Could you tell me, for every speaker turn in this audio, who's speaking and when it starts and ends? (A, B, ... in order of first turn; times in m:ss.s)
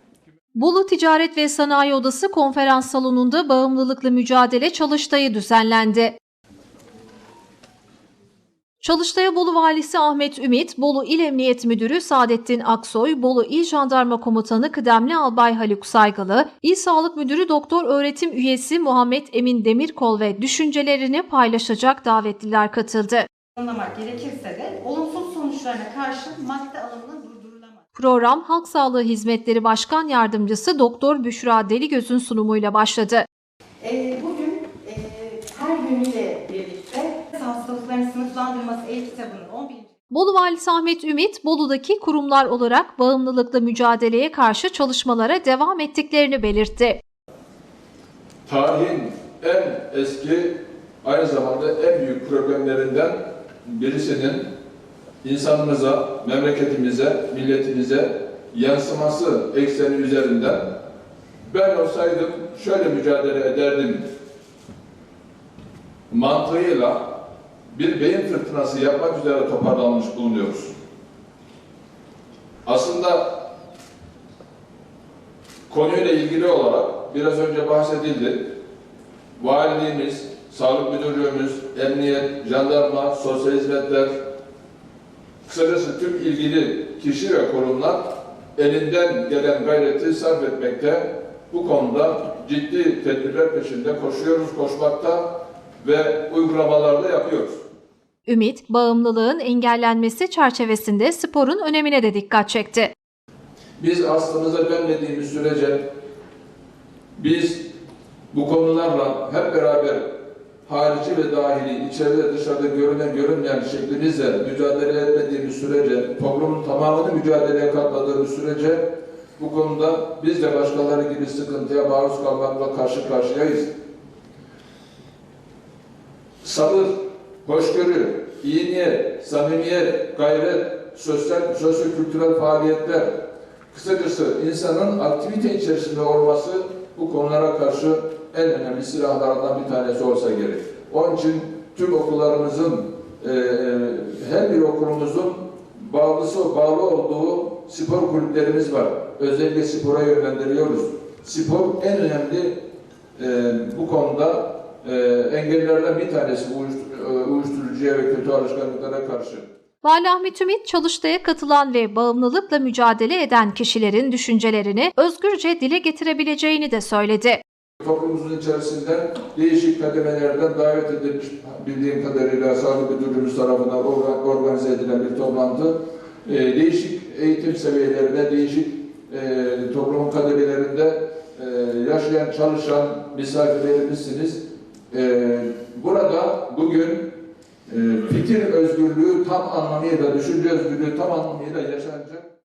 0:00.5-0:06.2 A
0:08.8-0:23.3 A
0:23.6-0:27.8 B
0:28.0-0:33.2 A
0:33.8-0:39.9 B
0:40.1-0:47.0 A
0:48.4-0:54.4 C
0:55.2-1:00.7 C
1:01.5-1:04.0 C
1:06.1-1:07.1 C
1:07.7-1:10.7 C
1:12.6-1:13.5 C
1:15.7-1:18.4 C
1:19.4-1:24.2 C
1:25.4-1:35.3 C
1:35.8-1:37.6 C
1:38.2-1:42.9 A
1:43.8-1:45.9 C
1:47.2-1:47.6 C
1:48.3-1:50.1 C
1:50.7-1:58.9 C
1:59.4-2:03.7 C
2:06.4-2:13.1 C
2:13.7-2:32.6 C
2:33.2-2:39.5 C
2:39.8-2:47.4 A
2:47.8-3:04.4 C
3:04.9-3:07.1 C
3:07.7-3:12.2 C